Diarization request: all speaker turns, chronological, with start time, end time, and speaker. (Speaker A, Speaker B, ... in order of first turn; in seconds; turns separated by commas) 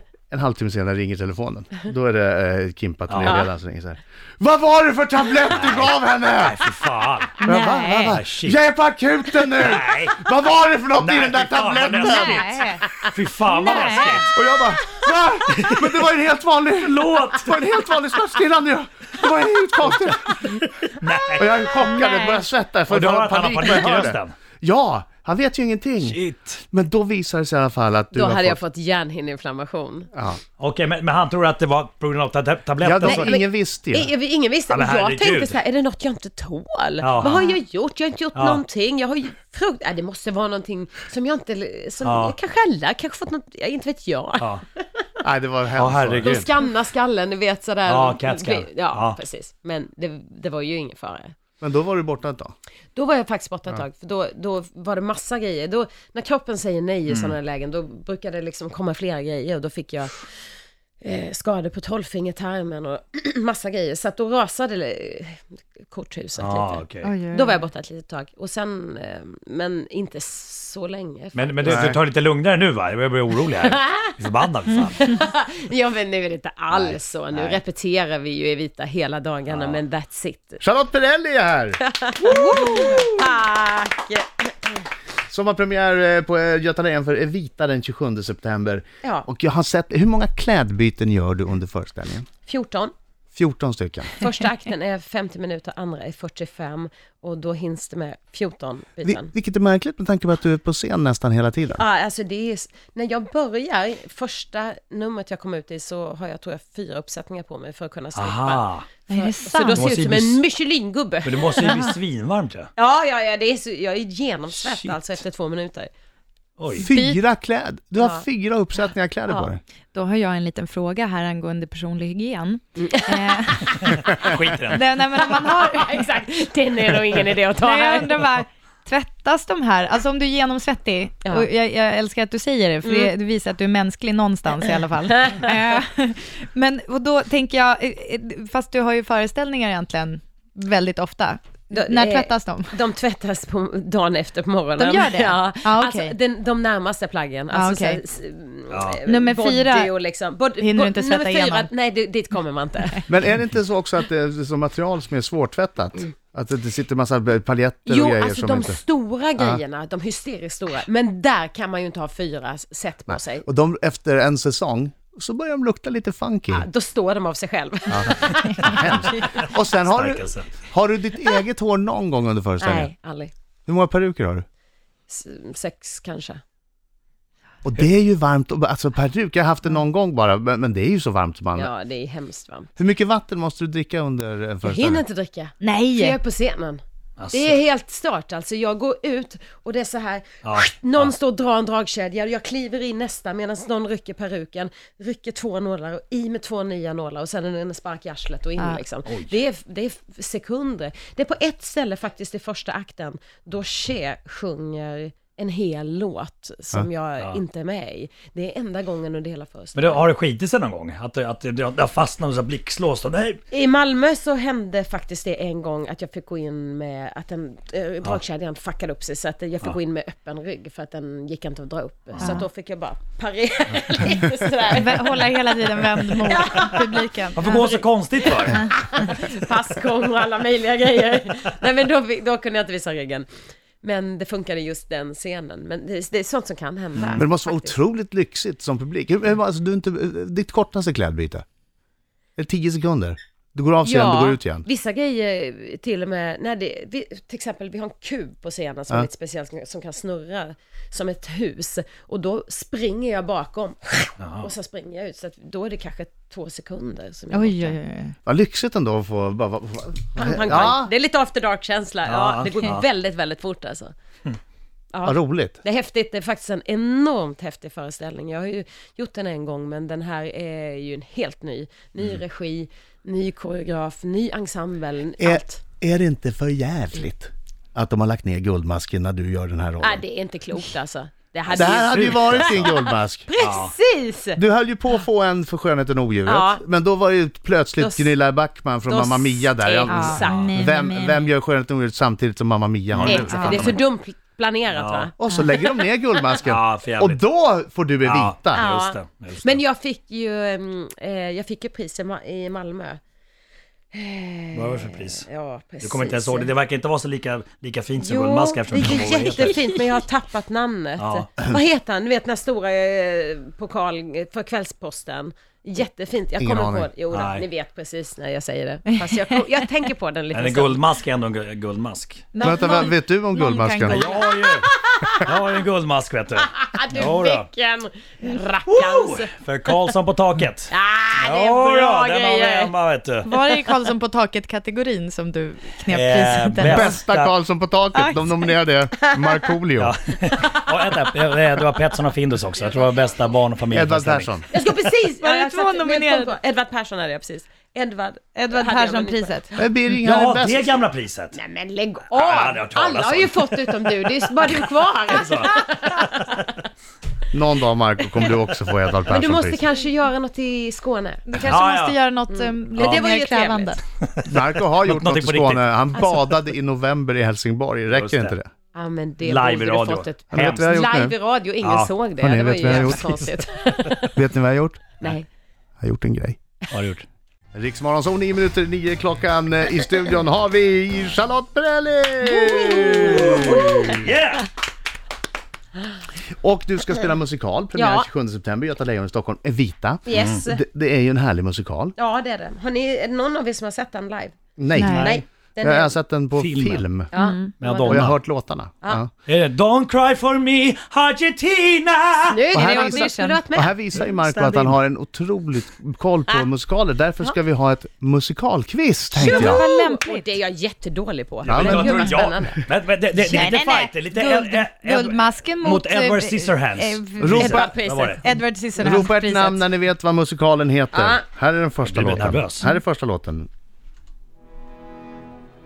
Speaker A: 0.3-6.6, Speaker B: 3.1-3.5, Speaker B: 5.5-7.4, Speaker C: 7.4-8.2, Speaker A: 7.5-13.1, Speaker B: 8.0-8.6, Speaker B: 9.6-10.2, Speaker B: 11.0-12.5, Speaker C: 11.9-12.8, Speaker B: 13.0-14.3, Speaker C: 13.5-14.2, Speaker A: 14.1-20.7, Speaker B: 15.5-16.1, Speaker B: 16.8-17.6, Speaker B: 20.9-21.7, Speaker A: 21.4-26.2, Speaker C: 21.9-22.2, Speaker B: 22.9-24.4, Speaker B: 26.0-26.6, Speaker A: 26.7-28.6, Speaker D: 28.1-30.1, Speaker A: 30.1-30.4, Speaker B: 30.6-33.4, Speaker A: 32.8-34.1, Speaker D: 33.1-44.8, Speaker B: 34.7-35.6, Speaker B: 37.0-37.5, Speaker B: 38.4-38.6, Speaker B: 42.0-42.4, Speaker A: 45.2-46.5, Speaker B: 45.8-46.5, Speaker D: 46.2-51.4, Speaker B: 47.9-49.2, Speaker A: 51.6-52.5, Speaker D: 53.0-60.3, Speaker B: 57.1-57.4, Speaker D: 61.0-71.8, Speaker B: 66.4-67.2, Speaker C: 67.0-67.6, Speaker B: 71.3-75.0, Speaker A: 71.7-72.0, Speaker D: 73.6-74.0, Speaker D: 74.9-80.6, Speaker B: 76.7-77.6, Speaker B: 79.5-79.8, Speaker A: 80.6-81.8, Speaker D: 81.8-84.8, Speaker C: 82.2-83.1, Speaker A: 82.5-83.0, Speaker A: 85.3-92.3, Speaker D: 92.5-92.9, Speaker A: 93.3-94.2, Speaker D: 94.2-99.3, Speaker A: 99.0-101.8, Speaker D: 101.8-112.0, Speaker B: 108.2-108.9, Speaker C: 109.1-109.8, Speaker B: 109.7-110.4, Speaker B: 111.2-112.7, Speaker D: 112.8-115.9, Speaker B: 114.5-115.0, Speaker B: 116.6-116.9, Speaker C: 116.8-117.2, Speaker A: 116.8-119.6, Speaker D: 118.0-118.2, Speaker C: 119.9-123.7, Speaker D: 122.8-124.2, Speaker B: 123.8-124.9, Speaker C: 124.2-126.1, Speaker D: 125.0-128.3, Speaker C: 127.5-142.7, Speaker D: 132.9-133.1, Speaker D: 134.6-135.7, Speaker D: 141.7-153.1, Speaker C: 144.8-146.1, Speaker C: 147.5-148.0, Speaker B: 148.7-149.0, Speaker C: 149.1-150.0, Speaker C: 150.6-151.7, Speaker A: 153.1-158.8, Speaker D: 157.9-163.5, Speaker A: 163.1-166.7, Speaker D: 166.5-169.1, Speaker A: 167.9-172.9, Speaker B: 169.8-170.5, Speaker D: 172.6-173.3, Speaker A: 173.7-174.4, Speaker D: 175.1-176.4, Speaker A: 177.6-181.7, Speaker D: 181.6-182.7, Speaker A: 182.8-185.0, Speaker D: 184.6-210.1, Speaker C: 185.6-186.2, Speaker B: 187.2-187.6, Speaker B: 190.4-191.1, Speaker C: 198.6-198.8, Speaker B: 199.1-199.4, Speaker B: 209.8-213.4, Speaker D: 213.5-227.3, Speaker C: 222.2-222.5, Speaker C: 224.7-227.8, Speaker B: 227.4-228.7, Speaker D: 228.2-233.3, Speaker C: 228.5-229.1, Speaker D: 233.8-237.8, Speaker B: 237.0-237.2, Speaker A: 237.2-241.4, Speaker A: 242.4-244.7, Speaker D: 243.8-257.8, Speaker B: 254.2-254.5, Speaker C: 257.3-258.2, Speaker A: 258.3-260.9, Speaker D: 260.2-263.9, Speaker B: 262.0-262.9, Speaker D: 264.9-275.6, Speaker A: 265.1-265.6, Speaker A: 275.2-280.0, Speaker D: 279.8-284.4, Speaker B: 281.5-282.8, Speaker A: 281.5-283.3, Speaker B: 283.4-283.7, Speaker A: 284.4-293.8, Speaker D: 286.3-286.6, Speaker D: 287.8-288.1, Speaker D: 288.9-290.5, Speaker C: 289.9-291.3, Speaker B: 290.2-290.5, Speaker B: 292.9-293.4, Speaker D: 293.1-295.1, Speaker C: 293.3-293.8, Speaker B: 294.7-295.1, Speaker A: 295.2-298.6, Speaker C: 295.3-295.6, Speaker B: 296.4-297.2, Speaker B: 298.0-299.6, Speaker D: 298.5-303.0, Speaker D: 303.9-306.5, Speaker B: 304.5-305.3, Speaker B: 305.8-309.6, Speaker D: 308.0-320.9, Speaker B: 311.0-311.3, Speaker A: 316.4-316.9, Speaker B: 317.1-317.4, Speaker C: 318.9-319.4, Speaker B: 320.3-322.3, Speaker C: 322.3-324.2, Speaker A: 322.4-324.1, Speaker B: 323.8-324.7, Speaker D: 324.3-325.3, Speaker B: 325.2-327.5, Speaker D: 326.4-329.3, Speaker B: 328.7-333.3, Speaker D: 330.7-332.7, Speaker C: 333.2-337.0, Speaker B: 335.9-337.3, Speaker A: 336.6-339.9, Speaker C: 337.9-338.6, Speaker B: 339.8-344.3, Speaker D: 340.4-341.0, Speaker A: 343.7-344.5, Speaker D: 344.5-349.6, Speaker C: 345.1-346.4, Speaker C: 348.4-349.5, Speaker A: 349.6-350.8, Speaker B: 349.9-351.4, Speaker D: 351.3-356.4, Speaker B: 352.1-355.5, Speaker B: 356.1-356.5, Speaker A: 357.3-359.6, Speaker D: 359.1-361.3, Speaker C: 361.3-363.8, Speaker B: 361.4-362.1, Speaker D: 362.3-363.8, Speaker B: 362.8-363.1, Speaker B: 364.0-366.0, Speaker A: 364.2-368.5, Speaker B: 367.9-368.4, Speaker D: 368.8-374.1, Speaker B: 369.2-370.8, Speaker A: 370.3-371.1, Speaker B: 371.6-371.9, Speaker A: 372.2-373.1, Speaker B: 372.6-373.1, Speaker A: 374.0-374.9, Speaker D: 375.0-375.3, Speaker A: 375.8-376.4, Speaker B: 376.7-377.1, Speaker A: 377.5-384.0, Speaker D: 382.2-384.2, Speaker B: 383.2-384.5, Speaker A: 386.4-391.9, Speaker D: 387.8-388.1, Speaker D: 390.1-390.6, Speaker D: 392.0-394.4, Speaker A: 394.6-397.1, Speaker C: 394.7-395.1, Speaker B: 394.8-395.2, Speaker D: 394.9-396.0, Speaker B: 396.3-397.1, Speaker D: 397.1-397.4, Speaker C: 397.1-398.1, Speaker B: 397.6-398.2, Speaker A: 397.9-399.1, Speaker B: 399.2-402.4, Speaker D: 402.3-403.8, Speaker C: 402.5-404.8, Speaker A: 402.6-409.6, Speaker C: 409.2-410.3, Speaker D: 409.2-412.6, Speaker B: 411.4-418.2, Speaker A: 411.5-412.3, Speaker C: 413.2-419.7, Speaker A: 417.2-417.7, Speaker D: 417.4-418.3, Speaker A: 418.8-423.5, Speaker D: 420.9-421.2, Speaker B: 421.9-422.7